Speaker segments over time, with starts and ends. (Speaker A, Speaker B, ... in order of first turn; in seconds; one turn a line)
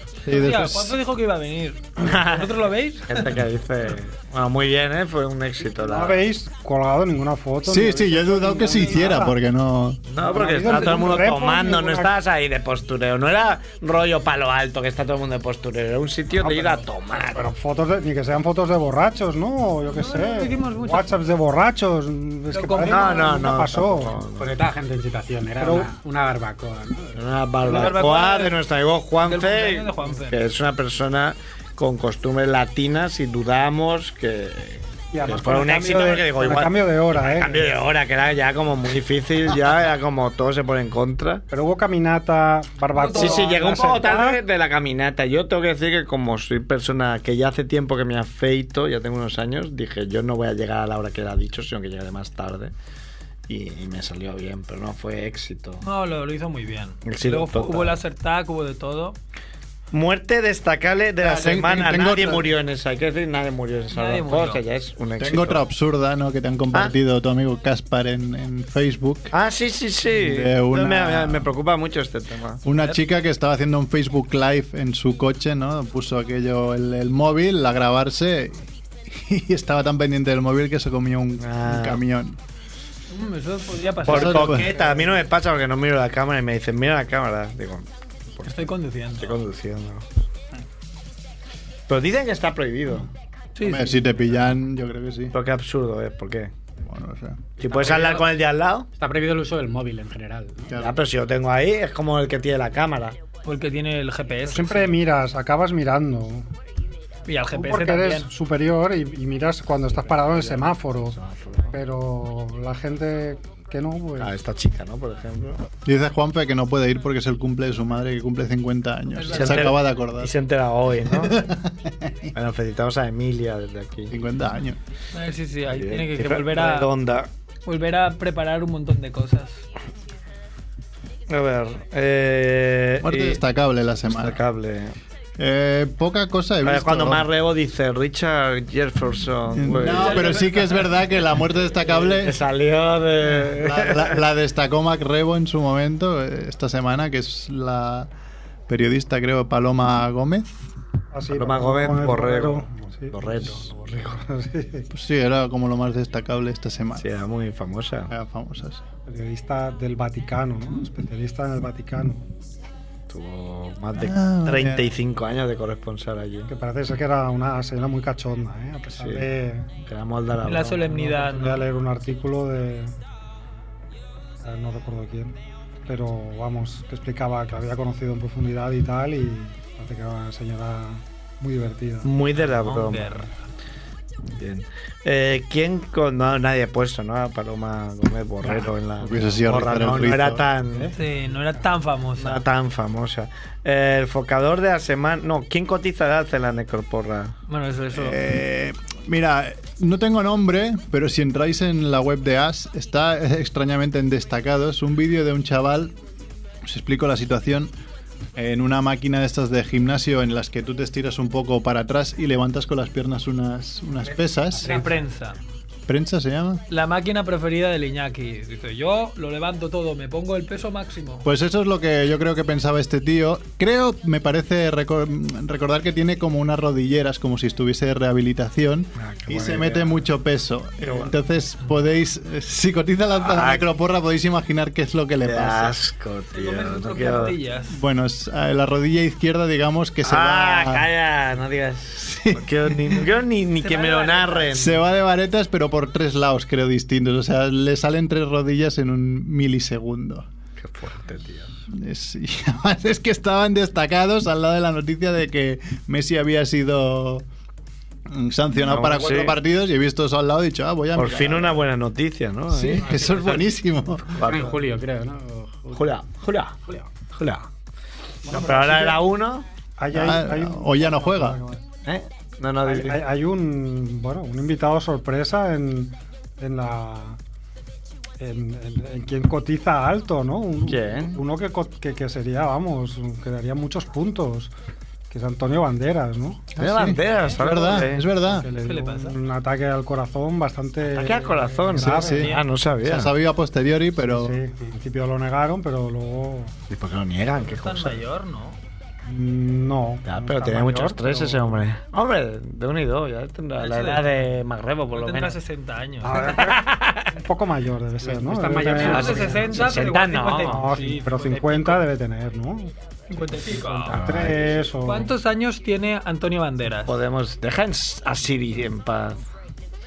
Speaker A: 0.2-1.0
Speaker B: 0.3-3.3
Speaker C: 2.0-6.3
Speaker D: 5.8-9.4
Speaker A: 7.7-10.0
Speaker B: 8.7-9.1
Speaker C: 10.0-17.5
Speaker D: 10.2-12.1
Speaker D: 16.4-24.1
Speaker B: 19.9-21.2
Speaker B: 22.5-23.4
Speaker C: 22.8-24.6
Speaker E: 24.4-27.2
Speaker D: 25.6-25.9
Speaker C: 27.1-41.4
Speaker B: 27.6-28.6
Speaker B: 29.2-30.4
Speaker D: 35.1-37.7
Speaker D: 41.5-44.4
Speaker B: 43.0-44.0
Speaker C: 43.1-52.7
Speaker C: 53.5-55.9
Speaker B: 55.8-59.2
Speaker C: 57.0-58.0
Speaker C: 59.9-65.6
Speaker A: 61.2-62.5
Speaker B: 63.9-64.6
Speaker A: 65.2-69.3
Speaker C: 69.3-72.6
Speaker A: 70.1-71.5
Speaker A: 72.6-82.4
Speaker C: 81.4-82.0
Speaker B: 83.1-85.2
Speaker C: 84.0-90.1
Speaker A: 84.1-84.7
Speaker B: 88.5-89.4
Speaker C: 91.9-93.1
Speaker B: 93.6-94.0
Speaker A: 93.6-95.3
Speaker C: 95.3-96.5
Speaker A: 96.8-97.5
Speaker E: 97.6-98.3
Speaker C: 97.6-98.9
Speaker E: 99.0-100.8
Speaker A: 100.7-101.0
Speaker C: 100.7-103.2
Speaker B: 103.4-105.0
Speaker D: 104.5-106.5
Speaker B: 107.3-108.3
Speaker D: 107.5-111.2
Speaker C: 110.2-111.7
Speaker D: 111.7-114.3
Speaker C: 114.2-115.7
Speaker A: 115.8-120.4
Speaker B: 119.2-119.7
Speaker C: 119.3-121.4
Speaker A: 121.0-122.3
Speaker C: 122.3-124.1
Speaker A: 124.1-124.8
Speaker B: 125.1-126.9
Speaker C: 125.7-127.3
Speaker B: 127.7-129.6
Speaker C: 131.3-133.4
Speaker A: 133.0-134.4
Speaker C: 134.1-135.0
Speaker A: 135.4-137.3
Speaker C: 136.6-140.4
Speaker A: 139.5-142.4
Speaker B: 140.1-140.6
Speaker C: 141.8-144.2
Speaker A: 143.5-148.1
Speaker A: 148.7-150.6
Speaker D: 151.1-154.9
Speaker C: 151.3-154.2
Speaker A: 154.9-157.1
Speaker C: 157.0-158.1
Speaker A: 158.1-158.8
Speaker D: 159.1-162.3
Speaker C: 163.1-166.5
Speaker A: 164.0-164.9
Speaker D: 166.5-169.7
Speaker C: 168.9-169.3
Speaker C: 169.9-171.0
Speaker B: 170.4-171.7
Speaker D: 170.8-172.9
Speaker D: 174.4-182.1
Speaker C: 182.0-183.2
Speaker B: 182.4-183.3
Speaker C: 184.3-191.0
Speaker A: 189.0-190.5
Speaker D: 190.7-191.0
Speaker B: 190.9-192.4
Speaker C: 192.2-197.4
Speaker B: 197.5-198.2
Speaker A: 197.9-205.9
Speaker A: 206.6-207.7
Speaker A: 208.3-214.8
Speaker E: 214.6-215.0
Speaker B: 214.6-215.4
Speaker A: 215.9-216.6
Speaker B: 216.7-221.3
Speaker A: 221.2-235.8
Speaker C: 228.9-230.0
Speaker C: 230.8-231.1
Speaker C: 233.2-233.7
Speaker C: 235.2-237.4
Speaker B: 236.3-237.8
Speaker A: 237.7-240.9
Speaker C: 240.0-244.8
Speaker A: 242.0-243.1
Speaker B: 243.6-244.5
Speaker A: 244.5-250.3
Speaker C: 250.6-251.5
Speaker A: 251.7-257.2
Speaker A: 258.1-261.6
Speaker C: 258.6-259.4
Speaker C: 260.9-263.4
Speaker A: 262.5-264.2
Speaker E: 262.9-263.3
Speaker C: 264.1-264.6
Speaker E: 264.2-265.9
Speaker C: 265.7-266.6
Speaker C: 267.1-267.5
Speaker D: 268.2-269.0
Speaker C: 268.3-269.5
Speaker D: 269.8-271.6
Speaker A: 269.9-271.4
Speaker C: 271.8-273.0
Speaker D: 272.6-277.2
Speaker D: 278.2-284.5
Speaker C: 280.6-281.2
Speaker D: 285.1-286.5
Speaker C: 286.6-288.1
Speaker A: 286.6-288.5
Speaker D: 288.2-292.3
Speaker B: 288.6-289.2
Speaker C: 290.8-293.1
Speaker A: 292.0-292.3
Speaker B: 292.2-292.5
Speaker A: 292.8-294.4
Speaker D: 294.0-296.6
Speaker C: 296.7-298.0
Speaker B: 297.4-298.6
Speaker D: 299.1-301.6
Speaker C: 300.0-305.4
Speaker B: 303.6-304.3
Speaker B: 304.9-306.4
Speaker D: 306.0-309.7
Speaker C: 306.2-307.1
Speaker E: 308.1-309.6
Speaker C: 308.7-310.7
Speaker B: 308.9-311.8
Speaker D: 310.4-315.1
Speaker B: 313.1-314.3
Speaker C: 313.9-314.8
Speaker B: 314.8-316.9
Speaker C: 316.9-319.2